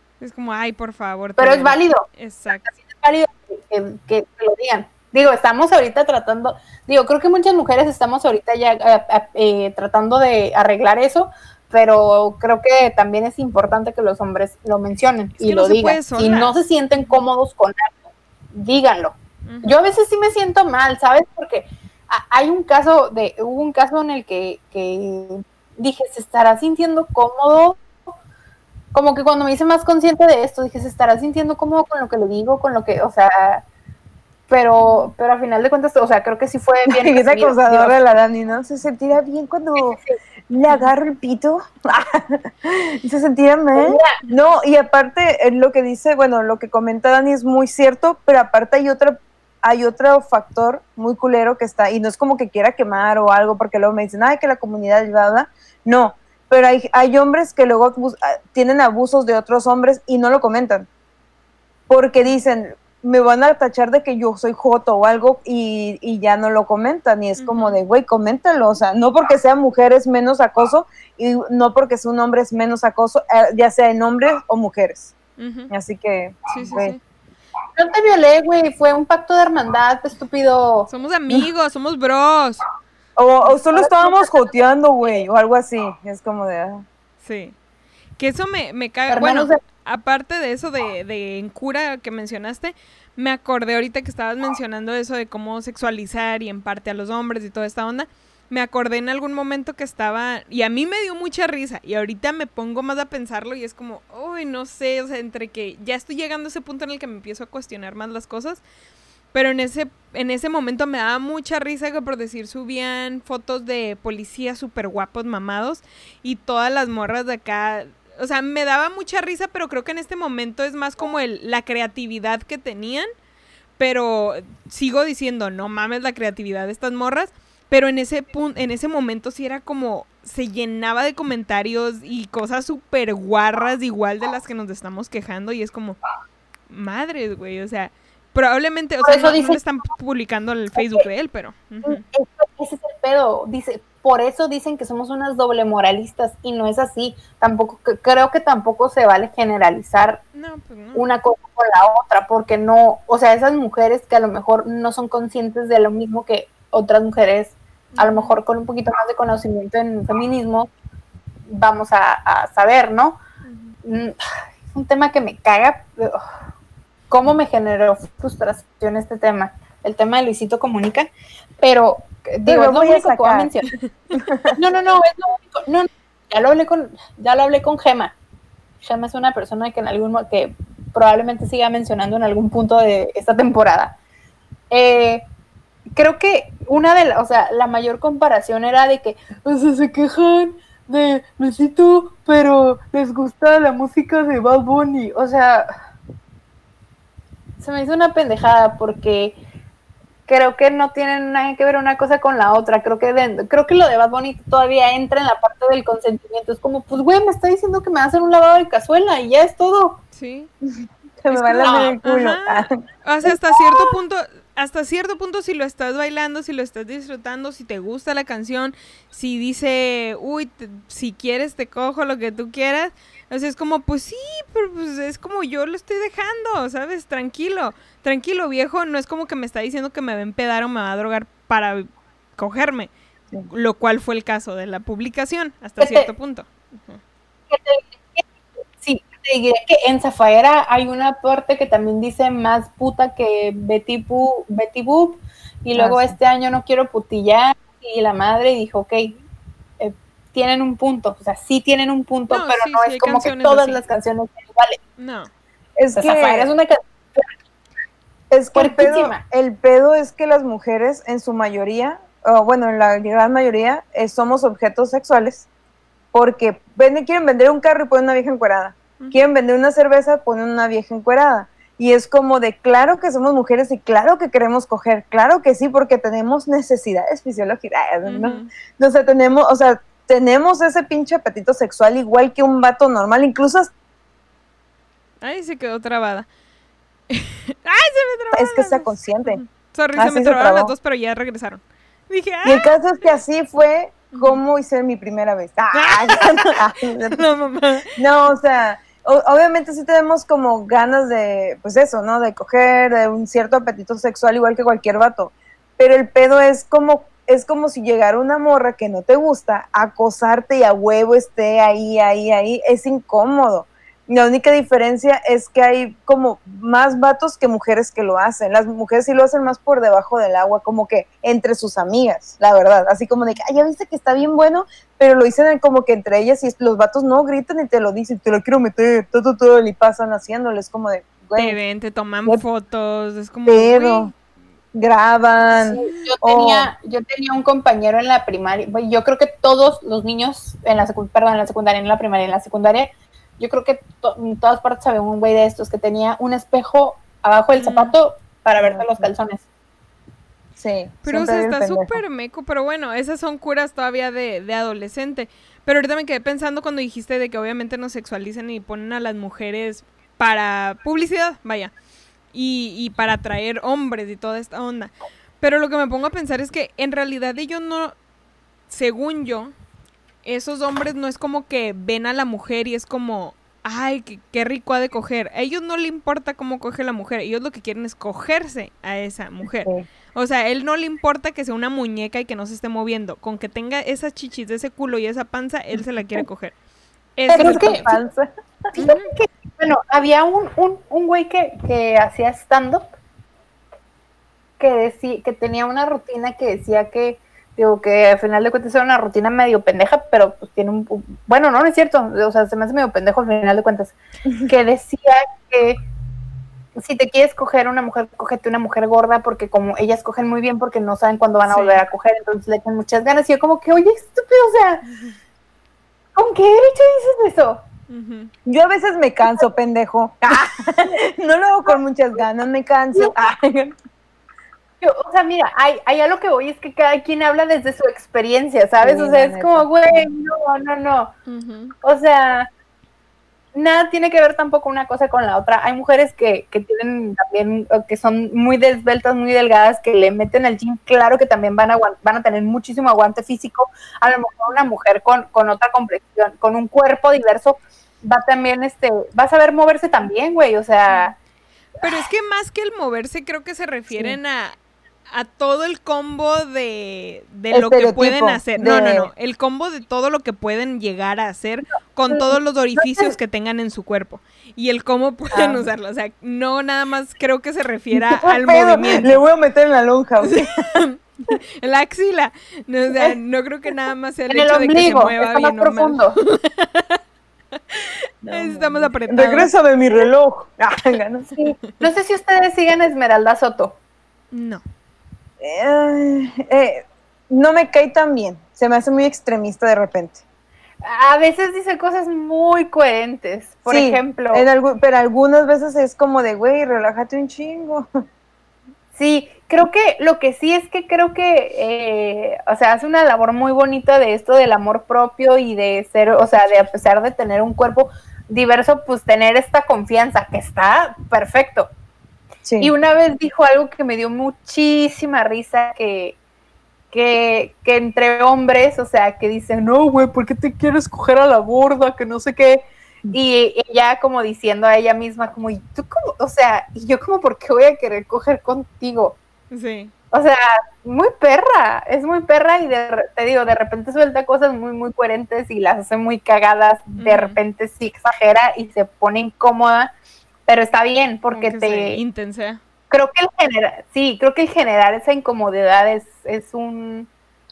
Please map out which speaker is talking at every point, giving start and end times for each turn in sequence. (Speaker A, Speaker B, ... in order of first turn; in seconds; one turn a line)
Speaker A: 0.2-2.7
Speaker B: 1.4-2.0
Speaker B: 2.6-27.8
Speaker A: 15.4-16.6
Speaker A: 19.4-19.8
Speaker B: 28.9-33.6
Speaker B: 34.5-38.0
Speaker C: 36.9-60.9
Speaker B: 39.8-40.2
Speaker B: 43.7-44.2
Speaker C: 61.9-75.1
Speaker A: 67.4-67.8
Speaker A: 75.4-75.7
Speaker C: 75.7-77.0
Speaker A: 76.5-77.0
Speaker B: 77.8-80.9
Speaker A: 80.9-82.6
Speaker C: 83.2-86.8
Speaker B: 83.5-84.5
Speaker A: 87.2-87.5
Speaker A: 88.2-108.6
Speaker B: 89.1-89.6
Speaker A: 109.3-123.1
Speaker A: 123.8-136.0
Speaker A: 136.7-142.0
Speaker B: 139.0-139.6
Speaker B: 140.8-141.0
Speaker B: 141.8-150.2
Speaker A: 150.3-151.1
Speaker B: 150.9-160.7
Speaker A: 157.9-158.3
Speaker B: 161.5-163.2
Speaker A: 163.5-163.8
Speaker B: 163.8-166.2
Speaker B: 167.1-171.1
Speaker B: 171.6-173.7
Speaker C: 172.4-173.5
Speaker C: 174.2-174.5
Speaker B: 174.5-178.2
Speaker B: 178.8-183.9
Speaker B: 184.7-185.2
Speaker B: 185.9-195.7
Speaker B: 197.6-199.4
Speaker B: 200.3-210.0
Speaker A: 210.1-210.5
Speaker C: 210.7-212.8
Speaker A: 211.3-232.9
Speaker B: 211.6-211.9
Speaker A: 233.5-237.0
Speaker B: 235.8-236.1
Speaker B: 237.5-238.2
Speaker B: 238.8-249.2
Speaker C: 245.8-246.2
Speaker B: 249.8-254.8
Speaker A: 252.3-253.8
Speaker A: 255.0-255.3
Speaker C: 255.8-256.5
Speaker B: 255.9-257.3
Speaker C: 258.3-265.5
Speaker B: 258.5-259.2
Speaker C: 266.1-283.7
Speaker A: 278.1-278.5
Speaker A: 285.2-286.3
Speaker A: 287.1-292.7
Speaker C: 288.3-289.4
Speaker C: 289.9-290.7
Speaker C: 292.4-297.2
Speaker A: 294.1-294.4
Speaker A: 295.7-297.9
Speaker C: 297.9-331.6
Speaker A: 331.4-334.1
Speaker C: 333.4-334.1
Speaker C: 334.7-336.7
Speaker B: 335.7-349.4
Speaker A: 347.6-347.9
Speaker C: 348.6-349.1
Speaker C: 350.6-352.0
Speaker A: 351.0-361.7
Speaker A: 362.3-367.9
Speaker A: 368.7-369.5
Speaker A: 370.2-386.5
Speaker C: 379.4-379.8
Speaker A: 387.2-387.9
Speaker C: 387.3-388.7
Speaker B: 387.3-387.9
Speaker B: 388.7-392.9
Speaker A: 388.8-389.1
Speaker B: 394.6-405.8
Speaker B: 406.8-414.9
Speaker A: 411.5-411.8
Speaker B: 416.1-417.6
Speaker A: 417.9-418.3
Speaker C: 418.4-423.7
Speaker B: 420.3-420.9
Speaker B: 424.8-431.1
Speaker C: 428.8-430.1
Speaker A: 431.2-431.7
Speaker B: 431.8-432.5
Speaker B: 433.5-451.1
Speaker A: 451.8-454.6
Speaker A: 455.1-469.2
Speaker C: 457.5-459.1
Speaker B: 462.8-463.1
Speaker C: 465.3-465.7
Speaker C: 467.9-470.8
Speaker A: 470.2-477.0
Speaker B: 474.3-476.2
Speaker A: 477.6-479.5
Speaker C: 478.2-481.3
Speaker B: 481.4-483.8
Speaker A: 484.3-484.6
Speaker C: 485.4-490.2
Speaker B: 490.8-494.4
Speaker C: 493.7-497.9
Speaker B: 499.0-511.7
Speaker C: 512.5-512.7
Speaker B: 512.6-516.2
Speaker B: 516.9-529.2
Speaker A: 529.5-529.9
Speaker B: 530.1-539.9
Speaker A: 537.0-537.4
Speaker B: 540.5-542.0
Speaker A: 541.3-542.6
Speaker B: 542.9-547.1